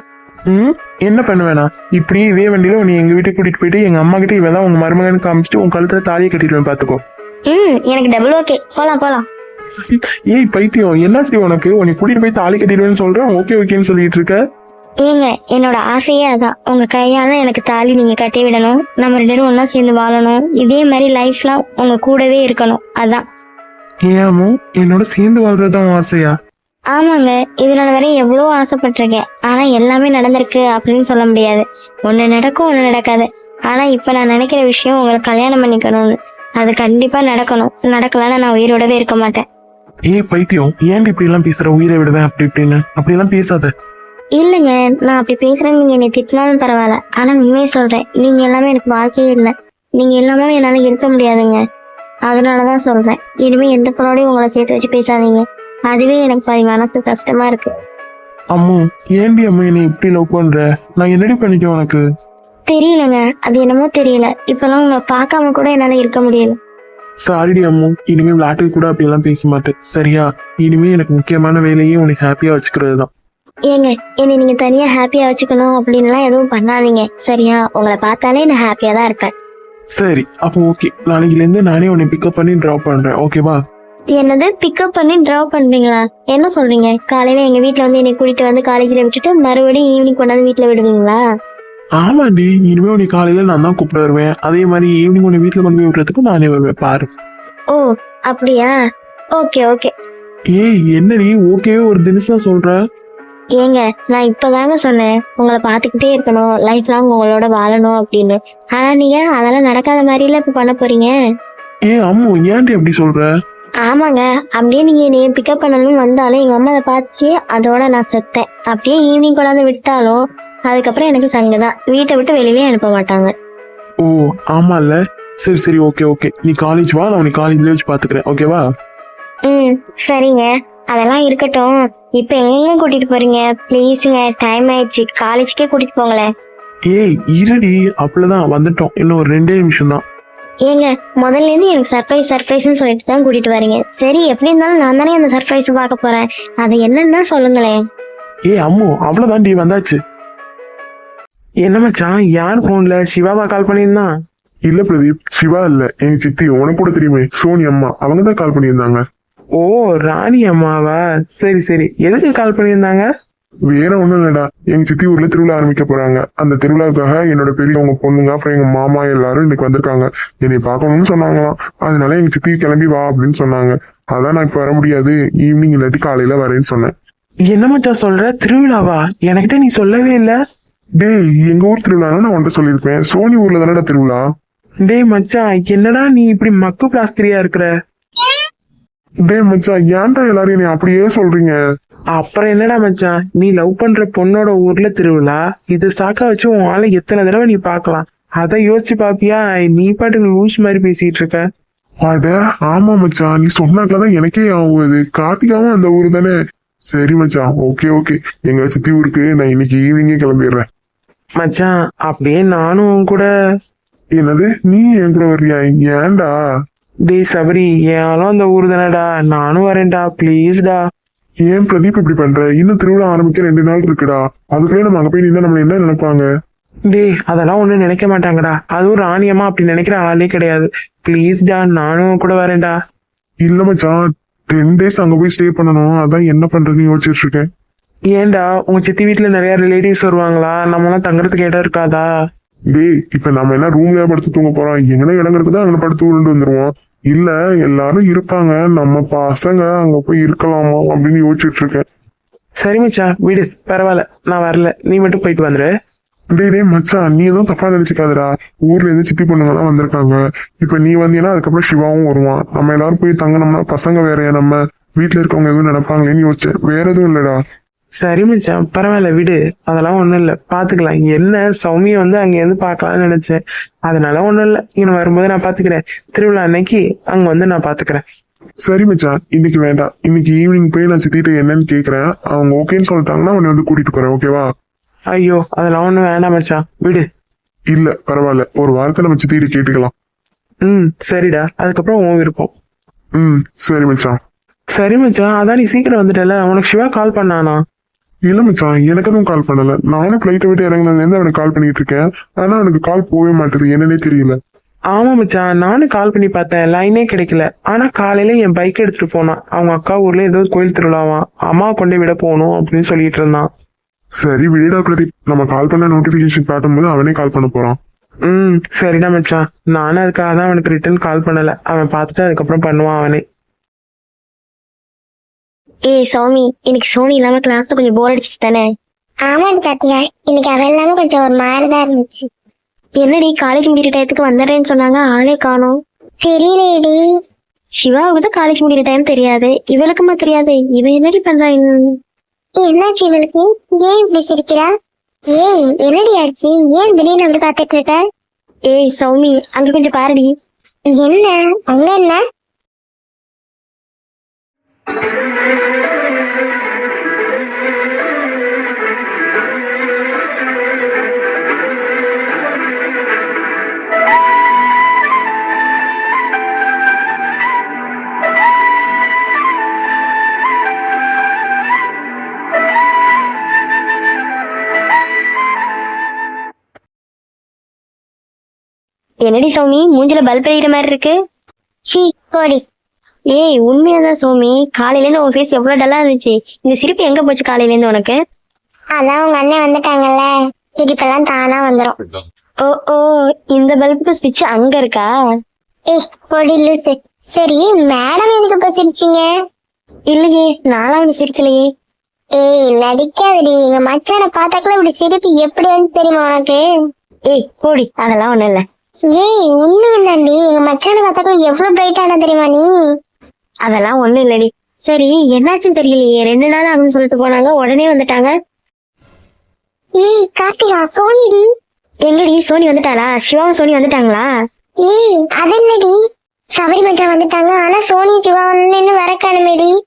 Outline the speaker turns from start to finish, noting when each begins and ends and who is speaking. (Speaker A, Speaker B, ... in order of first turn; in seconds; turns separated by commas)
Speaker A: 0.5-7.0, Speaker B: 7.5-9.3, Speaker A: 9.8-14.4, Speaker B: 15.0-23.2, Speaker A: 24.1-26.4, Speaker B: 26.9-39.5, Speaker A: 40.1-43.7, Speaker B: 44.4-51.6, Speaker B: 52.3-57.7, Speaker A: 58.5-62.0, Speaker B: 62.7-66.6, Speaker A: 67.2-73.1, Speaker B: 73.7-79.3, Speaker A: 80.0-83.6, Speaker B: 84.1-91.2, Speaker A: 92.0-97.1, Speaker B: 97.7-98.8, Speaker B: 99.3-99.9, Speaker A: 100.5-102.8, Speaker B: 103.6-111.2, Speaker A: 111.9-113.3, Speaker B: 113.8-123.3, Speaker A: 124.0-128.6, Speaker B: 129.4-136.3, Speaker A: 136.9-140.0, Speaker B: 140.7-147.8, Speaker A: 148.5-150.0, Speaker A: 151.7-154.1, Speaker C: 154.7-159.0, Speaker A: 159.6-163.1, Speaker C: 163.7-176.9, Speaker A: 177.5-180.3, Speaker C: 181.0-184.2, Speaker A: 184.9-187.7, Speaker C: 189.3-191.6, Speaker A: 192.2-201.4, Speaker C: 202.1-206.3, Speaker C: 206.9-210.7, Speaker A: 211.4-213.3, Speaker C: 214.2-216.3, Speaker A: 217.1-220.8, Speaker C: 221.5-226.3, Speaker A: 226.9-232.7, Speaker C: 233.4-237.5, Speaker A: 238.1-242.1, Speaker C: 242.7-251.8, Speaker A: 252.6-255.7, Speaker C: 256.4-267.4, Speaker A: 268.0-278.0, Speaker C: 278.6-284.4, Speaker A: 285.1-287.1, Speaker C: 287.7-289.9, Speaker A: 290.6-292.5, Speaker C: 293.2-294.2, Speaker A: 294.8-297.6, Speaker C: 298.3-304.4, Speaker A: 304.9-313.5, Speaker C: 314.2-317.8, Speaker A: 318.3-323.2, Speaker B: 325.9-328.7, Speaker D: 329.3-332.3, Speaker B: 333.0-335.8, Speaker D: 336.2-337.0, Speaker B: 337.8-342.0, Speaker D: 342.6-344.7, Speaker D: 345.3-348.0, Speaker B: 348.7-350.3, Speaker D: 350.9-352.2, Speaker B: 379.2-381.1, Speaker D: 381.9-382.6, Speaker B: 383.3-388.2, Speaker D: 389.0-392.0, Speaker B: 392.6-395.1, Speaker D: 395.9-399.3, Speaker B: 400.1-401.7, Speaker D: 402.4-406.6, Speaker B: 407.3-408.6, Speaker D: 409.1-412.7, Speaker B: 413.6-418.3, Speaker D: 420.0-421.5, Speaker B: 422.1-424.3, Speaker D: 424.8-426.0, Speaker D: 426.6-429.7